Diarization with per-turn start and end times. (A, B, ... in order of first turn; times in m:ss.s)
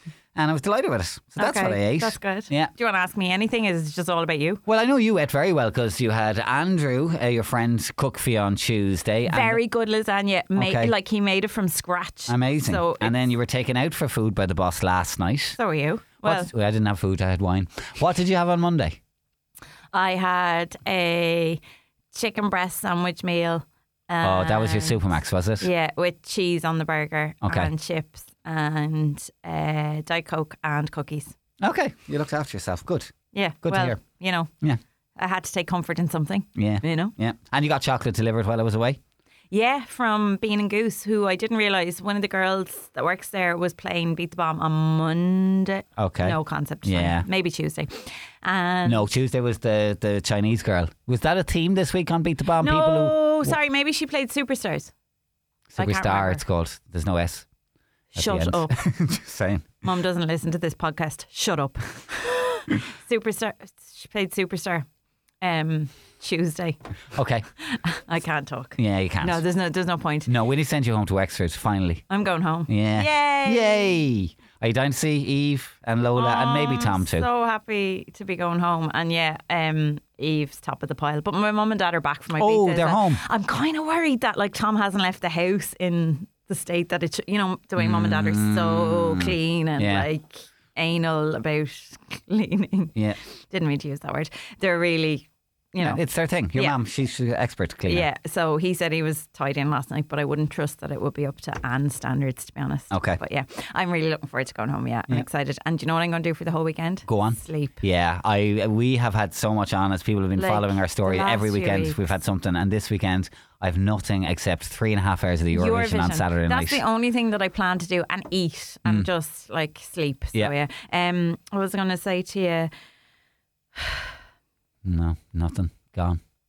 0:00.4-0:02.7 A
0:01.4-0:04.6 B
0:04.7-0:09.6 A
0:09.3-0:13.3 B
0:10.6-0:10.9 A
0:12.3-0:15.6 A
0:15.6-0:16.5 B
0:16.2-0:19.0 A
0:19.9-0:21.6 B
0:22.1-0:25.0 B
0:24.2-0:25.7 A
0:25.6-0:31.3 B
0:27.4-0:27.7 A
0:31.6-0:34.0 A
0:33.3-0:34.5 B
0:35.2-0:37.1 B
0:36.6-0:39.0 A
0:39.5-0:49.0 B
0:46.0-0:47.3 A
0:48.8-0:53.6 A
0:52.6-0:54.9 B
0:55.7-0:57.5 A
0:55.8-0:56.4 B
0:58.1-0:58.8 B
0:58.2-0:59.7 A
0:59.8-1:04.9 B
1:05.4-1:06.8 B
1:07.1-1:07.4 A
1:07.7-1:10.3 B
1:08.8-1:09.4 A
1:10.3-1:12.0 A
1:12.1-1:14.0 B
1:12.7-1:17.3 A
1:16.2-1:33.0 B
1:22.4-1:23.2 A
1:27.8-1:30.1 A
1:33.5-1:36.0 B
1:35.8-1:38.1 A
1:37.9-1:47.8 B
1:42.9-1:43.2 A
1:47.1-1:56.8 A
1:50.4-1:52.0 B
1:55.5-2:02.7 B
2:03.8-2:04.1 B
2:04.8-2:06.2 A